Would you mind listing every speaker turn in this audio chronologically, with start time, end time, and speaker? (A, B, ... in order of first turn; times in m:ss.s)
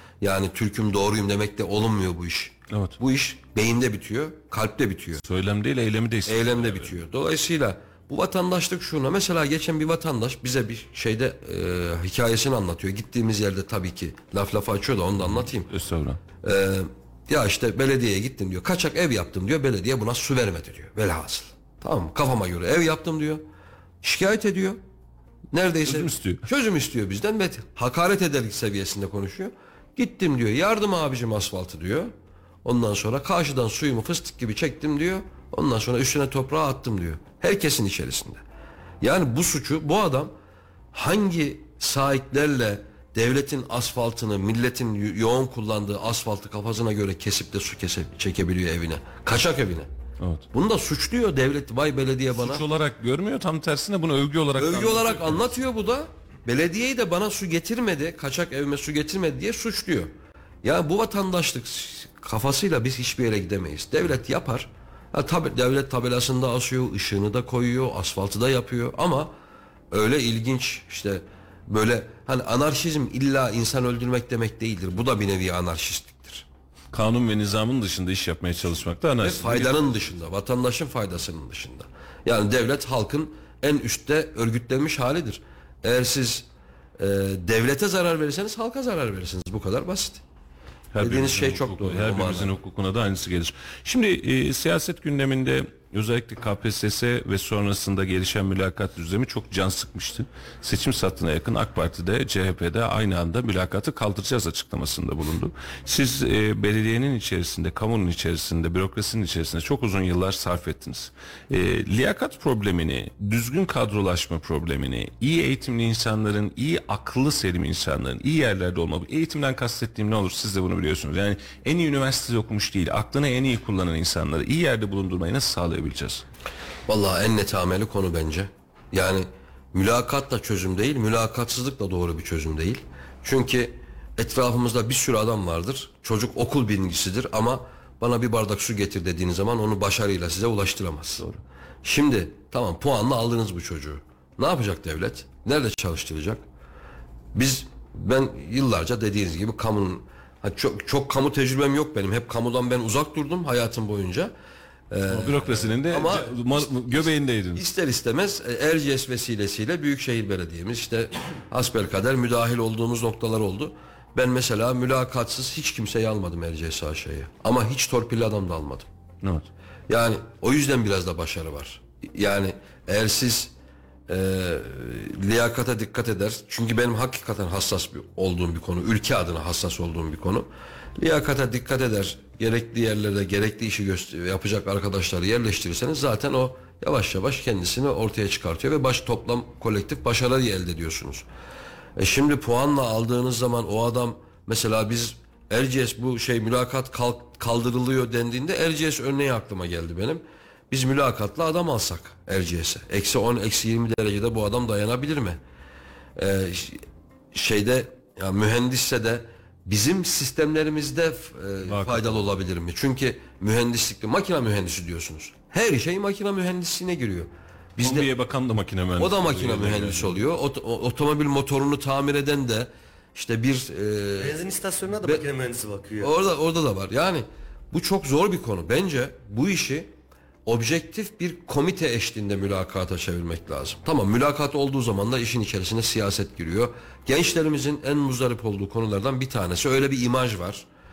0:00.2-0:05.2 A
0:02.7-0:03.0 B
0:05.2-0:07.0 B
0:06.2-0:15.7 A
0:15.2-0:16.2 B
0:16.4-0:23.4 A
0:24.0-0:24.8 A
0:25.5-0:32.1 A
0:25.8-0:26.4 B
0:32.6-0:38.4 A
0:39.0-0:40.3 A
0:40.9-0:49.9 A
0:50.2-0:50.4 B
0:50.5-0:52.6 A
0:52.3-0:55.6 B
0:54.5-1:00.1 A
1:00.6-1:09.3 A
1:09.9-1:16.4 A
1:16.9-1:19.8 B
1:19.2-1:26.5 A
1:27.0-1:30.2 A
1:30.9-2:06.2 B
1:31.0-1:32.5 A
2:06.9-2:21.2 A
2:21.8-2:26.4 A
2:27.3-2:34.3 A
2:34.9-2:48.9 A
2:35.1-2:37.6 B
2:49.2-2:49.5 B
2:49.9-2:53.5 A
2:54.1-3:11.2 A
3:12.0-3:25.4 A
3:26.2-3:38.1 A
3:31.6-3:32.2 B
3:37.8-3:40.2 B
3:39.0-3:44.4 A
3:44.2-3:46.1 C
3:46.0-3:49.9 A
3:50.4-4:00.6 A